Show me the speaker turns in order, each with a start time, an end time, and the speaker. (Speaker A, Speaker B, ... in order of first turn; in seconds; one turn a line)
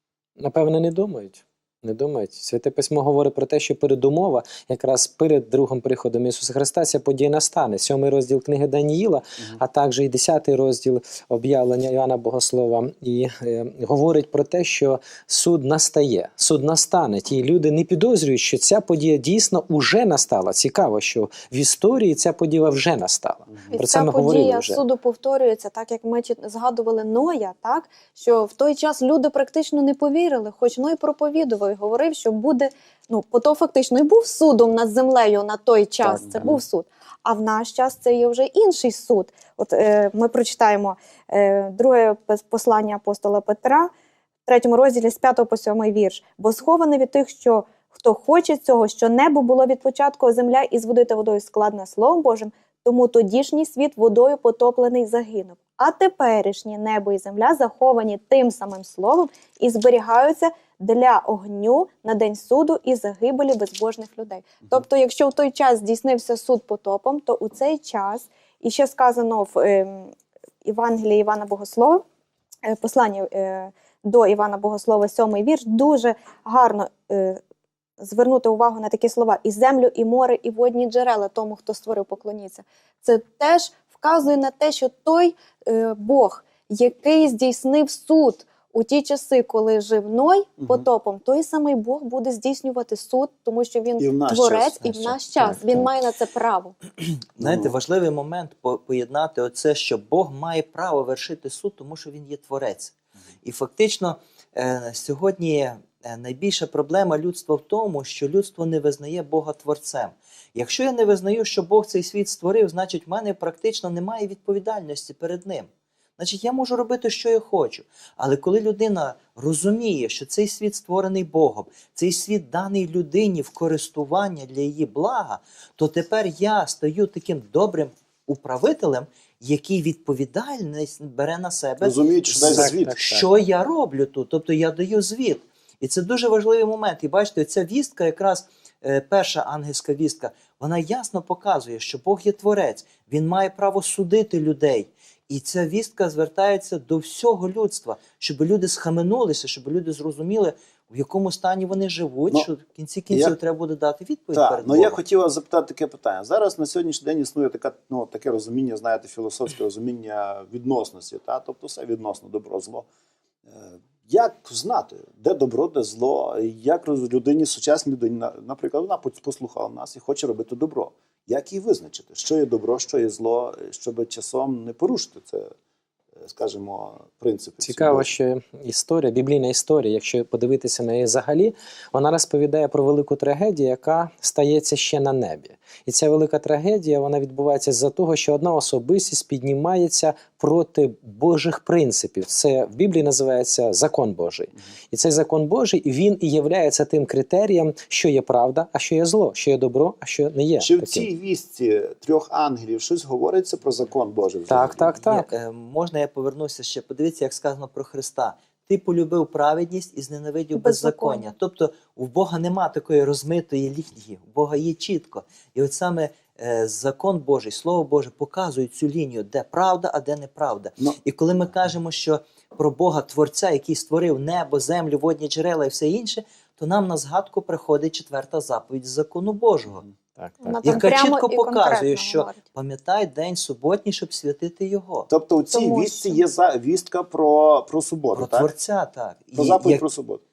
Speaker A: 0.4-24.8
Speaker B: 23.5-23.8
Speaker C: 23.7-43.9
Speaker B: 36.0-36.6
Speaker C: 44.5-72.0
Speaker C: 72.7-77.4
Speaker C: 78.0-96.8
Speaker B: 94.0-95.8
Speaker D: 94.8-95.6
Speaker D: 97.4-155.0
Speaker B: 97.4-97.7
Speaker B: 131.8-133.0
Speaker A: 132.4-133.3
Speaker B: 154.3-162.9
Speaker B: 163.5-175.5
Speaker B: 176.2-178.1
Speaker A: 177.6-201.1
Speaker B: 200.6-204.9
Speaker A: 204.5-205.3
Speaker D: 205.0-229.8
Speaker C: 210.6-211.3
Speaker A: 230.2-230.7
Speaker C: 230.4-232.4
Speaker D: 230.6-235.1
Speaker B: 235.1-238.5
Speaker C: 235.5-236.2
Speaker D: 238.1-239.8
Speaker B: 239.3-240.2